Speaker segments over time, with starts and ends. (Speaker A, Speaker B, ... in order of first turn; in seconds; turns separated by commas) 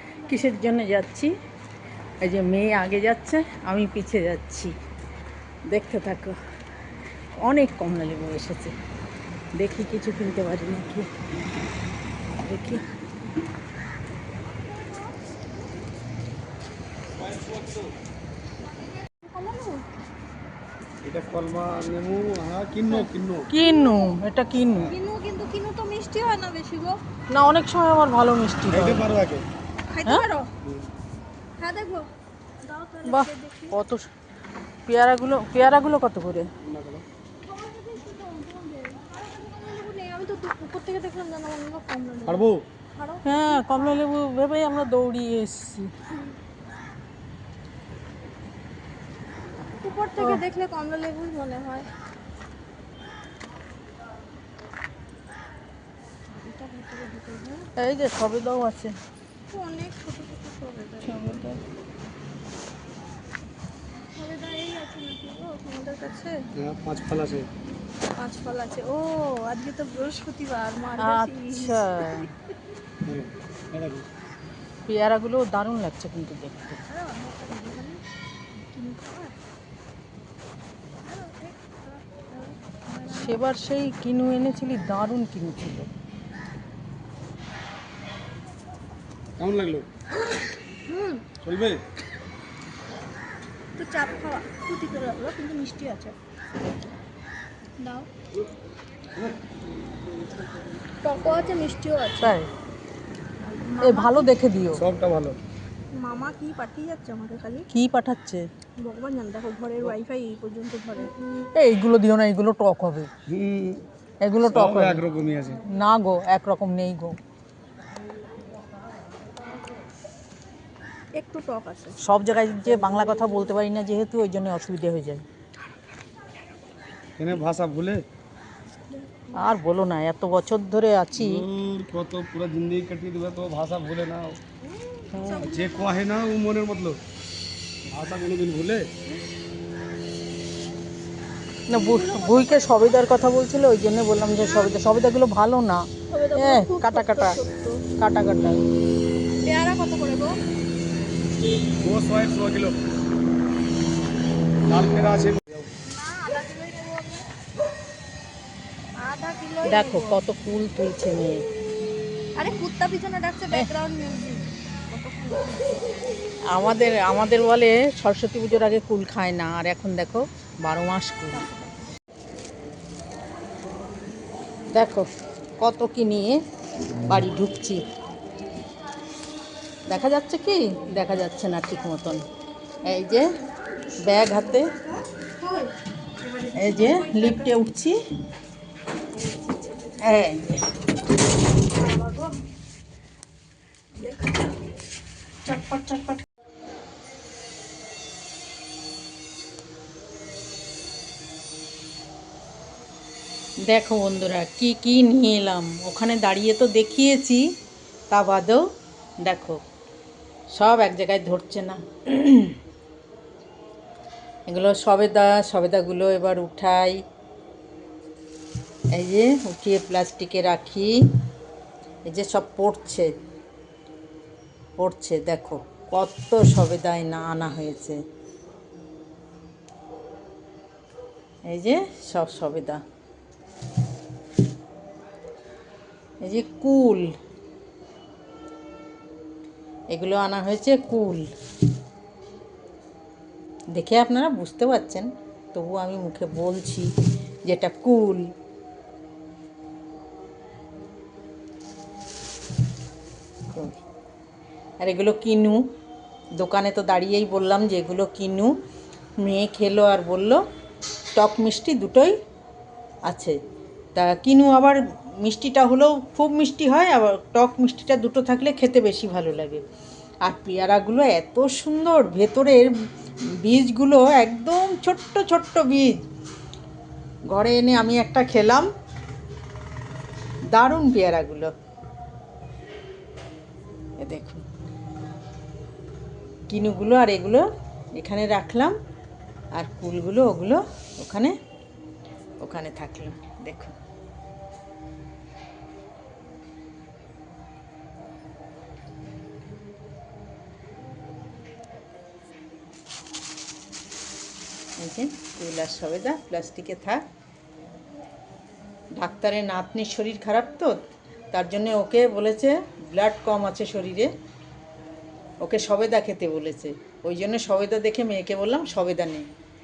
Speaker A: 0.3-1.3, Speaker A: 2.2-4.7, Speaker A: 5.7-6.4, Speaker A: 7.4-8.8, Speaker A: 9.6-11.1, Speaker A: 12.4-12.8, Speaker B: 14.5-15.3, Speaker C: 17.2-17.8, Speaker B: 18.9-19.9, Speaker C: 21.0-23.5, Speaker B: 22.9-24.1, Speaker A: 23.5-24.9, Speaker B: 24.9-27.0, Speaker A: 27.3-29.0, Speaker C: 28.7-29.4, Speaker B: 29.9-30.5, Speaker B: 31.6-33.8, Speaker A: 33.0-34.1, Speaker A: 34.9-36.5, Speaker C: 36.6-37.0, Speaker B: 37.4-44.0, Speaker C: 42.2-42.6, Speaker A: 43.2-45.9, Speaker B: 49.8-51.9, Speaker B: 56.4-57.7, Speaker A: 57.8-59.0, Speaker B: 59.5-61.2, Speaker A: 61.0-61.6, Speaker B: 64.2-66.4, Speaker C: 66.6-67.5, Speaker B: 68.2-72.3, Speaker A: 71.0-72.3, Speaker C: 73.0-74.1, Speaker A: 74.9-76.8, Speaker B: 76.9-78.0, Speaker B: 78.7-79.4, Speaker B: 81.0-83.4, Speaker A: 83.1-85.9, Speaker C: 89.4-89.9, Speaker B: 90.9-91.3, Speaker C: 91.4-91.8, Speaker B: 93.8-96.2, Speaker B: 97.8-98.1, Speaker B: 101.0-102.4, Speaker A: 102.2-102.5, Speaker B: 103.7-104.3, Speaker A: 103.8-104.8, Speaker C: 104.7-105.4, Speaker B: 105.9-107.7, Speaker A: 107.7-108.5, Speaker B: 108.8-111.1, Speaker A: 111.5-113.1, Speaker C: 113.3-113.8, Speaker A: 114.2-115.0, Speaker C: 114.5-115.6, Speaker A: 115.7-117.2, Speaker B: 121.2-122.0, Speaker A: 122.0-125.2, Speaker C: 127.2-128.0, Speaker A: 129.3-131.4, Speaker C: 131.1-134.4, Speaker B: 134.6-136.0, Speaker A: 135.1-135.4, Speaker C: 135.3-137.0, Speaker C: 137.9-138.9, Speaker A: 141.7-147.4, Speaker B: 141.7-143.3, Speaker B: 144.4-144.7, Speaker B: 146.1-147.8, Speaker A: 147.9-148.6, Speaker B: 149.4-150.4, Speaker C: 151.8-152.8, Speaker C: 154.7-155.7, Speaker B: 155.8-157.3, Speaker B: 159.0-160.2, Speaker A: 159.7-161.4, Speaker B: 162.3-165.8, Speaker A: 166.5-171.5, Speaker B: 171.3-171.8, Speaker A: 174.7-176.4, Speaker A: 177.0-177.8, Speaker A: 179.9-182.2, Speaker A: 182.8-183.4, Speaker B: 182.9-187.6, Speaker A: 184.0-184.7, Speaker A: 186.6-188.0, Speaker B: 189.2-190.0, Speaker A: 190.0-190.7, Speaker B: 191.7-192.4, Speaker B: 194.0-194.5, Speaker B: 195.5-196.0, Speaker A: 195.6-196.0, Speaker A: 203.6-207.4, Speaker A: 208.1-208.6, Speaker A: 209.2-209.6, Speaker A: 210.5-212.6, Speaker A: 214.5-217.0, Speaker A: 218.9-220.9, Speaker A: 222.1-223.1, Speaker A: 224.8-228.0, Speaker A: 231.4-232.8, Speaker A: 236.2-237.1, Speaker A: 239.9-241.3, Speaker A: 243.7-246.9, Speaker A: 247.4-248.3, Speaker A: 253.5-253.8, Speaker A: 254.8-255.6, Speaker A: 256.4-258.5, Speaker A: 259.2-260.4, Speaker A: 261.1-262.1, Speaker A: 263.1-263.4, Speaker A: 263.9-269.6, Speaker A: 270.2-272.7, Speaker A: 273.4-276.0, Speaker A: 277.3-278.7, Speaker A: 280.5-281.5, Speaker A: 284.0-284.4, Speaker A: 286.5-288.8, Speaker A: 289.5-291.3, Speaker A: 292.4-293.8, Speaker A: 304.8-307.0, Speaker A: 309.0-314.1, Speaker A: 315.4-319.3